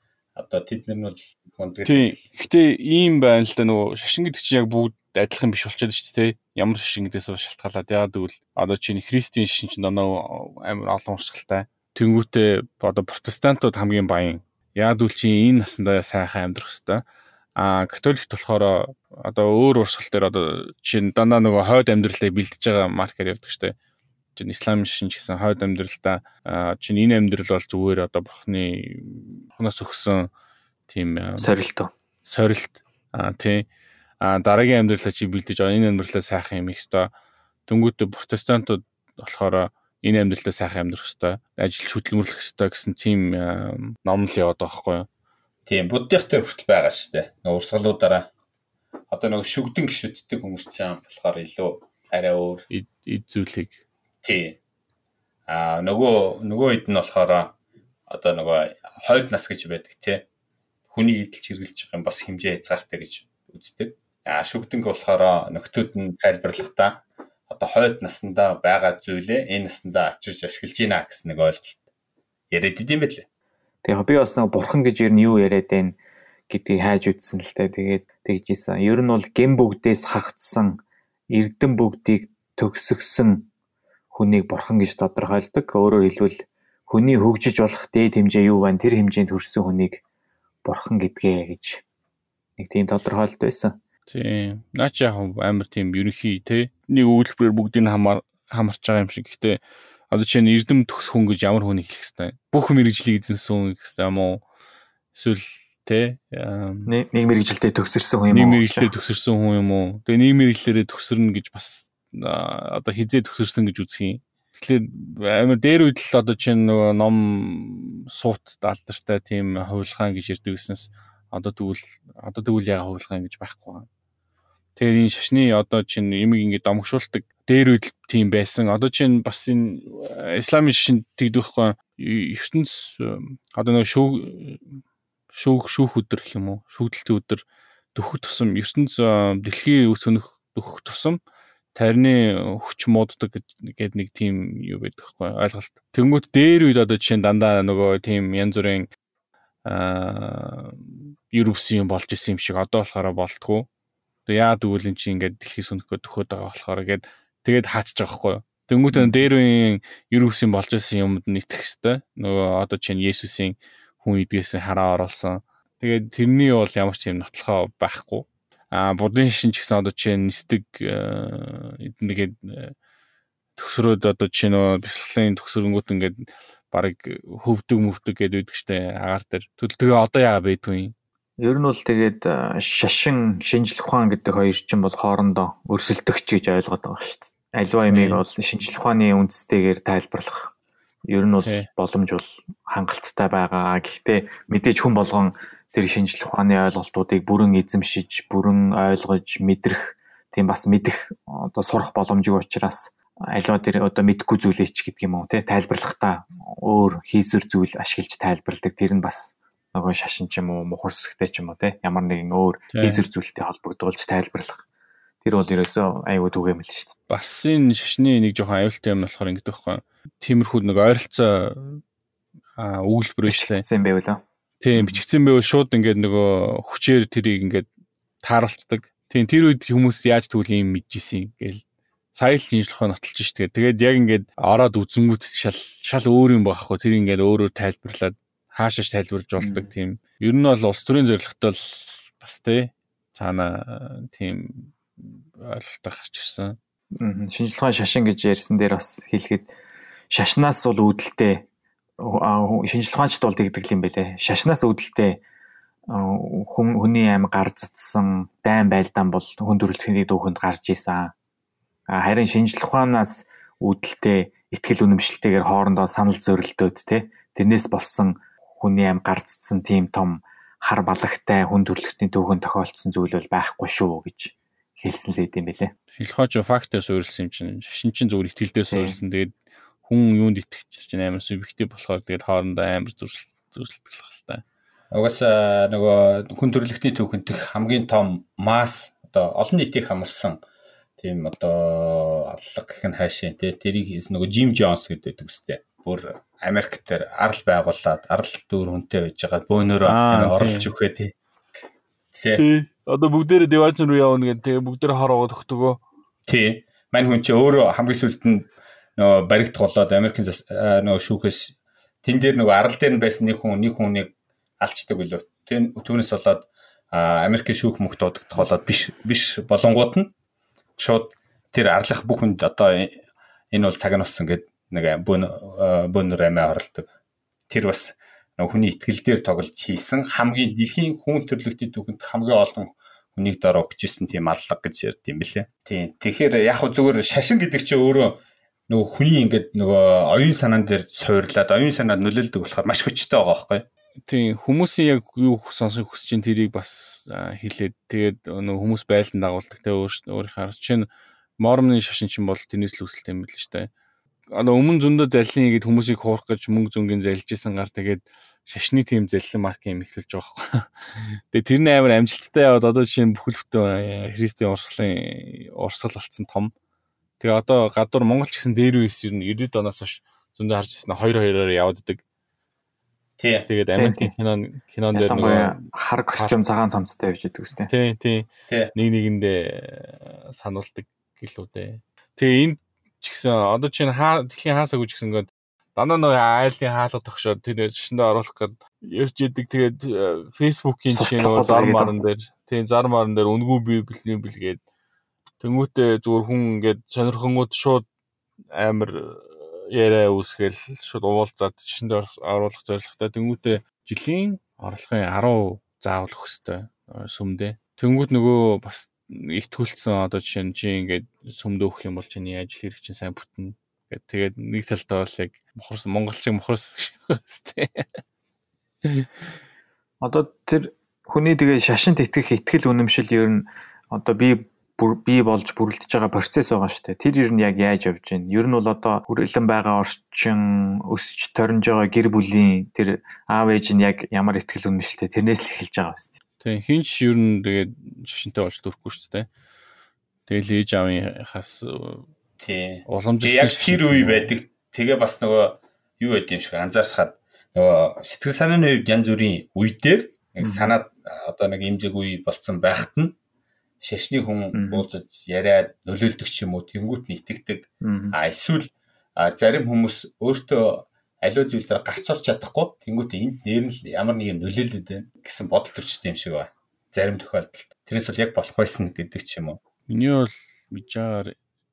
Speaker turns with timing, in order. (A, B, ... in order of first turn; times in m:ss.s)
0:00.4-0:02.2 A
0:01.8-0:17.0 B
0:17.6-0:23.7 B
0:24.4-0:30.3 B
0:30.9-0:31.5 B
0:31.4-0:31.9 C
0:32.2-0:33.7 B
0:34.2-0:37.1 B
0:37.7-0:45.1 B
0:45.7-0:48.2 A
0:49.1-0:52.6 A
0:52.7-0:53.8 B
0:54.2-0:54.6 A
0:55.5-0:57.5 A
0:58.1-1:00.2 A
1:00.9-1:11.8 A
1:12.5-1:13.2 A
1:13.8-1:16.0 C
1:16.5-1:23.5 C
1:24.1-1:30.0 C
1:30.6-1:31.8 C
1:32.6-1:33.7 C
1:34.1-1:39.6 B
1:40.1-1:44.4 B
1:45.1-1:46.9 B
1:46.9-1:48.9 C
1:48.3-2:03.9 B
2:04.8-2:14.6 B
2:15.3-2:17.4 B
2:17.9-2:21.2 B
2:21.7-2:28.9 B
2:29.6-2:33.7 B
2:34.2-2:52.7 B
2:53.6-3:00.9 B
3:01.4-3:10.5 C
3:07.9-3:08.2 B
3:11.0-3:34.6 C
3:11.4-3:11.7 B
3:32.7-3:33.0 B
3:35.2-3:37.0 C
3:37.1-3:41.8 B
3:42.6-3:43.6 B
3:43.3-3:44.2 C
3:44.6-3:47.7 B
3:48.2-3:51.6 B
3:52.1-4:06.6 B
3:59.4-3:59.7 C
4:07.0-4:09.5 C
4:10.1-4:11.5 C
4:12.0-4:15.2 C
4:15.9-4:21.1 C
4:21.9-4:35.7 C
4:35.9-4:44.4 B
4:38.7-4:39.0 C
4:44.9-4:50.4 A
4:51.0-5:01.1 A
4:59.8-5:00.7 B
5:02.1-5:02.4 A
5:02.4-5:05.8 B
5:06.3-5:20.1 A
5:20.8-5:23.0 A
5:23.5-5:26.9 A
5:27.5-5:43.6 A
5:44.0-5:50.9 B
5:51.4-5:53.7 B
5:54.3-6:06.5 B
6:07.2-6:12.0 B
6:13.2-6:13.5 A
6:13.5-6:16.4 B
6:13.7-6:14.1 C
6:14.9-6:17.7 C
6:17.7-6:34.6 B
6:30.9-6:31.9 C
6:35.4-6:37.9 B
6:38.5-6:58.0 B
6:58.8-6:59.3 B
7:00.0-7:16.1 C
7:16.4-7:19.3 B
7:20.3-7:22.1 B
7:22.4-7:33.1 A
7:22.9-7:24.3 B
7:30.4-7:30.7 C
7:33.8-7:49.6 A
7:34.5-7:34.8 C
7:37.8-7:38.2 C
7:49.9-7:51.3 B